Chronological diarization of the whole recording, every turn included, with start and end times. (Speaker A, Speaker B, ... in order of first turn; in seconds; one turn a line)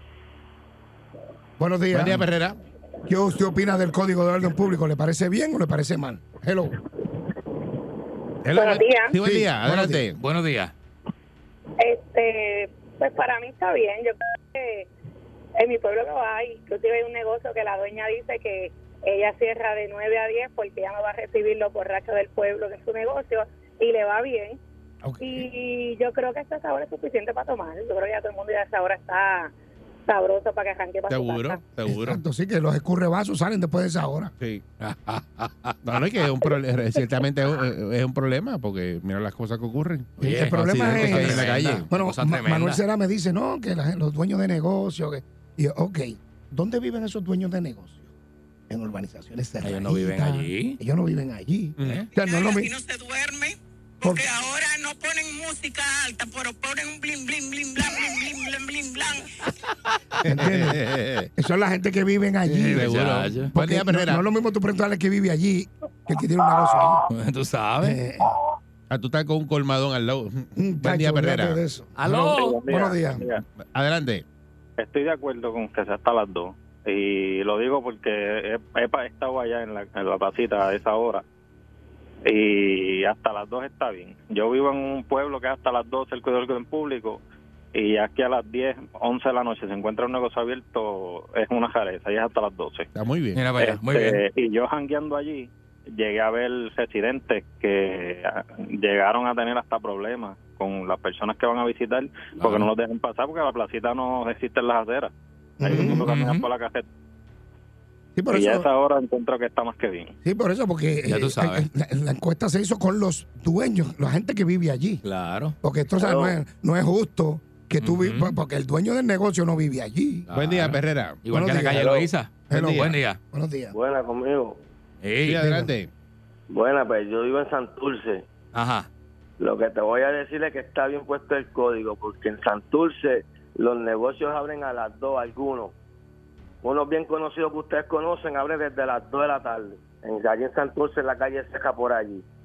Speaker A: 1.6-2.3
Speaker B: 1.9-2.6
Speaker A: 3.1-6.8
Speaker B: 8.4-10.2
Speaker C: 8.5-9.2
Speaker A: 9.2-10.1
Speaker D: 10.2-10.7
Speaker C: 11.8-14.9
Speaker C: 15.6-24.6
Speaker A: 25.0-25.5
Speaker C: 25.2-29.5
Speaker C: 30.1-31.6
Speaker B: 31.1-32.2
Speaker A: 31.9-34.3
Speaker B: 34.4-34.6
Speaker D: 34.8-35.8
Speaker B: 35.8-41.9
Speaker D: 40.2-42.8
Speaker A: 40.2-48.1
Speaker A: 48.7-52.7
Speaker D: 49.6-50.8
Speaker B: 51.8-52.1
Speaker D: 51.8-52.1
Speaker E: 52.2-59.3
Speaker A: 54.0-54.3
Speaker A: 60.3-60.8
Speaker B: 60.6-61.3
Speaker A: 61.4-63.0
Speaker D: 62.5-63.5
Speaker B: 62.7-64.3
Speaker A: 63.5-67.0
Speaker D: 67.1-68.0
Speaker A: 67.8-68.4
Speaker B: 68.9-71.6
Speaker A: 70.6-71.9
Speaker D: 72.0-72.9
Speaker F: 72.3-73.4
Speaker A: 72.7-73.2
Speaker B: 73.7-74.2
Speaker F: 74.8-81.2
Speaker F: 82.3-87.2
Speaker F: 87.8-92.9
Speaker B: 93.0-93.4
Speaker D: 93.3-94.2
Speaker F: 93.6-106.8
Speaker D: 102.4-102.7
Speaker A: 105.6-106.3
Speaker A: 108.2-108.7
Speaker F: 108.3-110.1
Speaker A: 110.2-115.0
Speaker D: 111.0-111.7
Speaker D: 115.0-115.5
Speaker A: 115.6-120.3
Speaker G: 116.0-116.4
Speaker D: 117.8-118.4
Speaker D: 120.3-123.2
Speaker B: 120.3-121.2
Speaker A: 121.3-121.8
Speaker G: 121.8-122.1
Speaker A: 122.5-123.8
Speaker B: 122.5-122.9
Speaker G: 123.7-124.6
Speaker D: 125.0-125.5
Speaker B: 125.2-125.9
Speaker A: 125.4-125.7
Speaker G: 126.5-128.2
Speaker D: 128.5-128.9
Speaker G: 129.4-135.7
Speaker G: 136.6-142.2